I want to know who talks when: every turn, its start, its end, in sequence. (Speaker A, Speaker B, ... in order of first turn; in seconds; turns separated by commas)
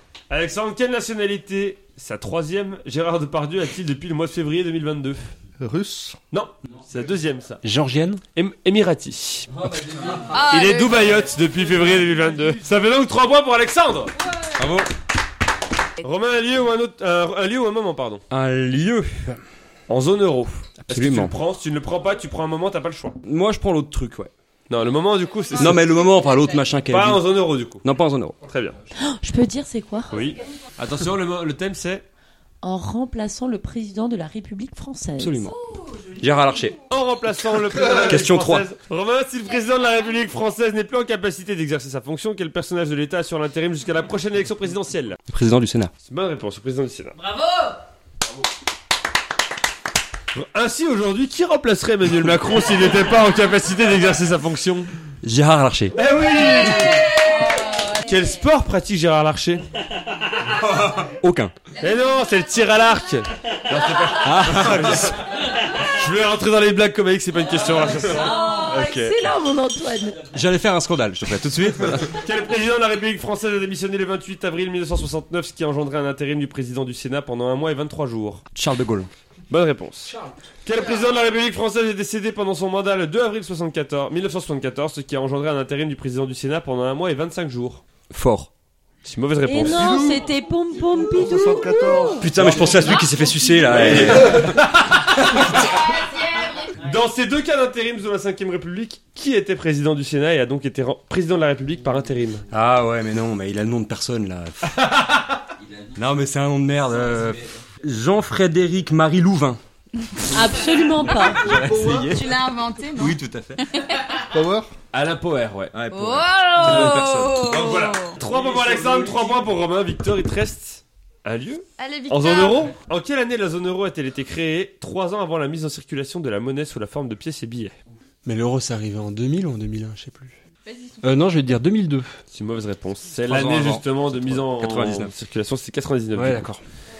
Speaker A: 0.3-5.3, Speaker B: 5.6-6.2, Speaker A: 6.3-7.6, Speaker C: 7.6-8.2, Speaker A: 8.3-9.6, Speaker D: 10.3-11.1, Speaker A: 10.5-14.1, Speaker E: 14.5-14.9, Speaker A: 16.0-18.2, Speaker E: 18.3-19.4, Speaker A: 19.9-23.2, Speaker E: 20.8-21.3, Speaker E: 23.2-24.3, Speaker A: 24.7-25.8, Speaker E: 25.6-28.4, Speaker A: 26.9-27.8, Speaker A: 28.4-28.8, Speaker F: 29.0-30.1, Speaker A: 30.1-32.0, Speaker F: 32.6-35.4, Speaker E: 35.2-35.6, Speaker E: 36.2-36.8, Speaker A: 36.9-45.2, Speaker E: 37.9-38.6, Speaker E: 45.3-45.9, Speaker A: 46.0-47.2, Speaker A: 50.3-54.9, Speaker E: 55.2-56.0, Speaker A: 55.9-57.1, Speaker D: 56.6-58.0, Speaker A: 57.9-59.6, Speaker E: 60.7-61.5, Speaker A: 61.8-65.3, Speaker E: 64.2-65.1, Speaker A: 65.8-68.6, Speaker F: 68.2-70.3, Speaker E: 68.7-69.1, Speaker E: 70.3-72.1, Speaker A: 72.1-78.4, Speaker E: 78.5-79.1, Speaker A: 79.5-87.8, Speaker E: 88.1-88.5, Speaker A: 89.0-90.2, Speaker F: 89.4-92.3, Speaker B: 89.6-90.2, Speaker B: 91.0-92.8, Speaker E: 92.2-95.4, Speaker A: 93.7-95.7, Speaker D: 95.8-96.7, Speaker A: 96.7-102.4, Speaker E: 102.5-104.8, Speaker A: 104.7-105.4, Speaker E: 105.9-109.6, Speaker D: 110.2-110.5, Speaker F: 110.3-111.4, Speaker E: 111.3-112.4, Speaker D: 111.6-114.0, Speaker B: 111.7-112.0, Speaker E: 112.9-113.6, Speaker B: 114.3-114.7, Speaker A: 114.9-115.8, Speaker E: 115.7-117.7, Speaker D: 115.9-118.2, Speaker A: 116.6-127.7, Speaker D: 121.8-122.7, Speaker C: 128.2-130.3, Speaker C: 131.0-132.2, Speaker A: 132.3-136.4, Speaker E: 133.2-135.1, Speaker C: 136.1-136.6